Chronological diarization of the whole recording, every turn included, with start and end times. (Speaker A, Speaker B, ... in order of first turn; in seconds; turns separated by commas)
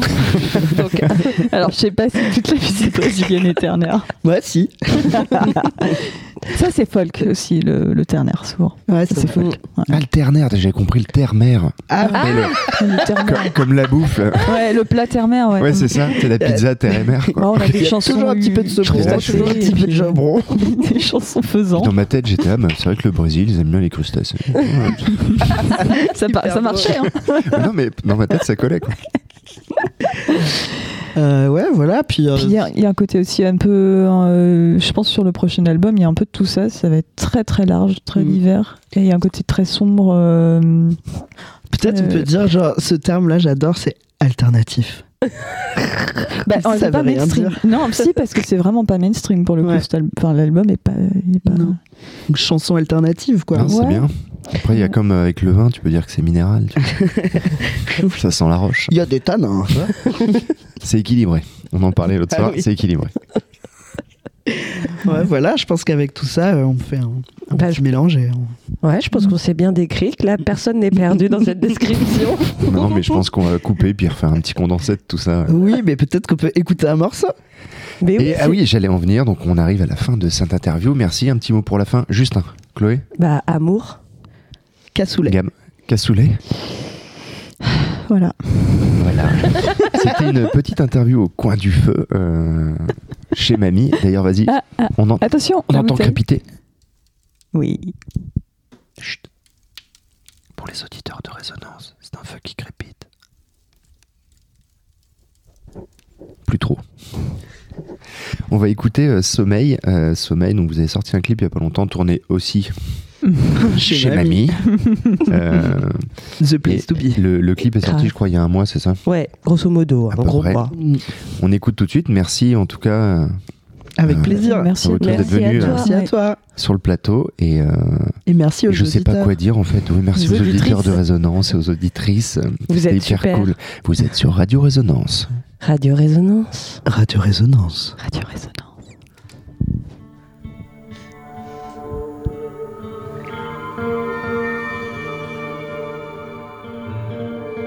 Speaker A: 0.5-0.8, Speaker B: 0.6-1.4, Speaker C: 1.3-4.1, Speaker A: 4.2-5.5, Speaker C: 5.1-10.0, Speaker A: 8.9-9.5, Speaker D: 9.9-14.8, Speaker A: 11.9-12.7, Speaker C: 12.0-13.6, Speaker B: 12.1-12.4, Speaker C: 14.4-16.1, Speaker D: 15.6-17.6, Speaker A: 16.4-20.8, Speaker C: 17.4-21.9, Speaker D: 18.8-19.7, Speaker D: 21.7-25.5, Speaker C: 25.8-27.6, Speaker A: 26.2-27.0, Speaker D: 27.4-29.0, Speaker A: 31.1-32.6, Speaker C: 32.4-41.0, Speaker A: 38.1-38.4, Speaker A: 41.7-45.0, Speaker C: 41.8-42.3, Speaker C: 46.4-51.8, Speaker A: 46.5-47.6, Speaker A: 51.5-51.8, Speaker A: 52.3-53.7, Speaker D: 53.5-57.0, Speaker C: 53.6-54.1, Speaker A: 57.0-58.1, Speaker D: 58.0-58.9, Speaker A: 58.9-60.3, Speaker D: 60.8-63.1, Speaker A: 62.3-62.6, Speaker A: 64.8-68.5, Speaker B: 67.5-67.8, Speaker B: 68.8-72.8, Speaker D: 72.6-75.6, Speaker A: 75.5-77.3, Speaker B: 78.0-78.6, Speaker D: 78.2-83.1, Speaker B: 83.2-84.0, Speaker A: 84.9-85.3, Speaker D: 85.2-86.4, Speaker C: 88.0-89.1, Speaker D: 88.9-96.4, Speaker C: 94.5-96.2, Speaker C: 97.5-97.9, Speaker D: 100.6-103.0, Speaker D: 106.5-106.8, Speaker D: 108.5-113.0, Speaker A: 113.6-114.5, Speaker D: 113.8-116.1, Speaker A: 116.4-117.2, Speaker D: 116.6-119.0, Speaker B: 117.8-118.1, Speaker B: 119.0-120.7, Speaker D: 120.1-120.7, Speaker A: 120.7-121.0, Speaker D: 121.3-123.4, Speaker A: 124.0-124.7, Speaker D: 124.0-125.9, Speaker C: 124.2-126.1, Speaker B: 125.0-125.9, Speaker A: 125.7-126.4, Speaker D: 126.5-128.2, Speaker A: 128.3-129.3, Speaker D: 128.7-135.3, Speaker C: 130.1-131.0, Speaker B: 132.7-133.5, Speaker B: 135.6-136.8, Speaker A: 136.8-138.0, Speaker C: 138.0-138.7